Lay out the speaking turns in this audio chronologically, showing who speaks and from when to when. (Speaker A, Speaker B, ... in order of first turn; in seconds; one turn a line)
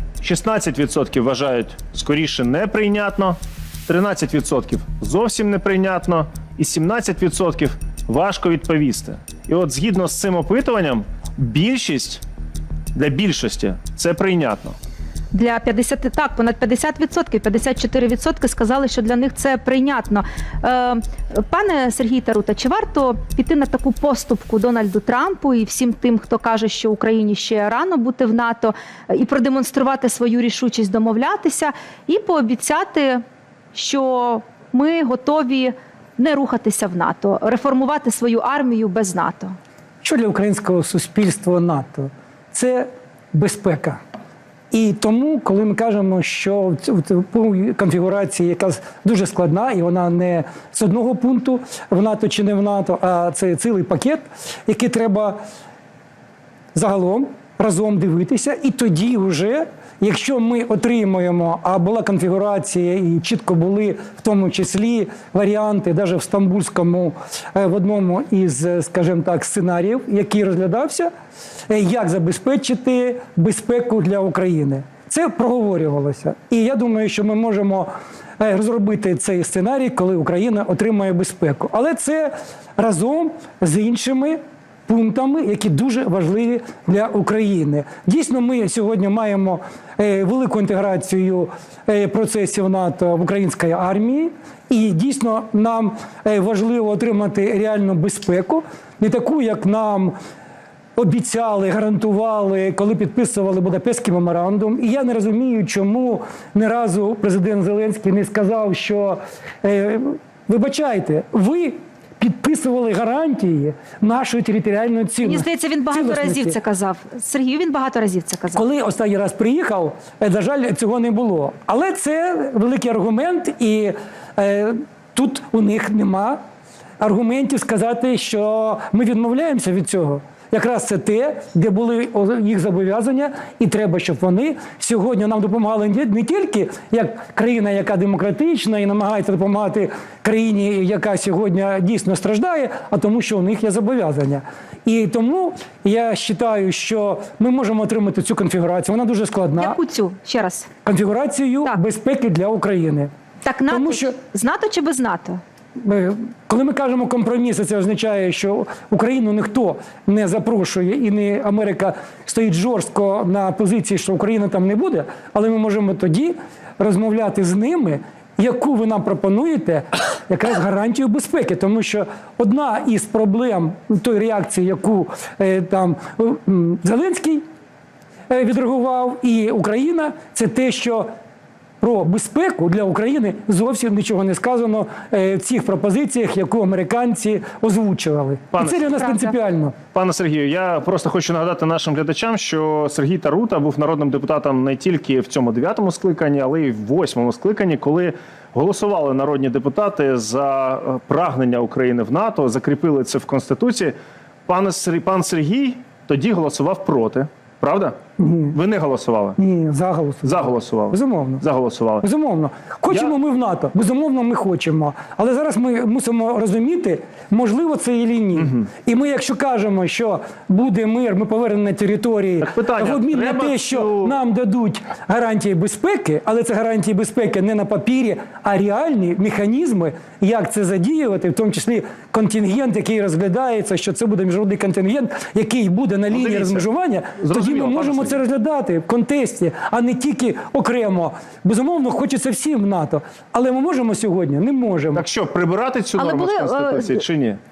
Speaker A: 0.2-12.2
Speaker A: 12.9-14.8
Speaker B: 15.3-39.6
Speaker C: 40.0-44.0
Speaker C: 44.7-55.4
Speaker C: 56.8-71.1
Speaker C: 71.7-100.2
Speaker C: 101.0-116.6
Speaker B: 115.2-118.7
Speaker C: 118.5-126.4
Speaker C: 127.0-149.8
Speaker B: 149.6-150.7
Speaker C: 150.8-153.1
Speaker B: 153.4-155.4
Speaker C: 153.7-154.2
Speaker C: 155.8-177.4
Speaker C: 178.3-181.1
Speaker C: 181.8-189.8
Speaker A: 188.5-189.2
Speaker A: 189.9-203.9
Speaker A: 204.5-208.0
Speaker C: 208.2-208.6
Speaker A: 208.5-209.4
Speaker C: 209.4-211.4
Speaker A: 210.2-212.1
Speaker C: 212.0-245.0
Speaker A: 212.9-213.1
Speaker A: 218.3-218.7
Speaker A: 222.4-224.2
Speaker A: 236.1-238.2
Speaker A: 244.9-247.4
Speaker B: 246.0-247.0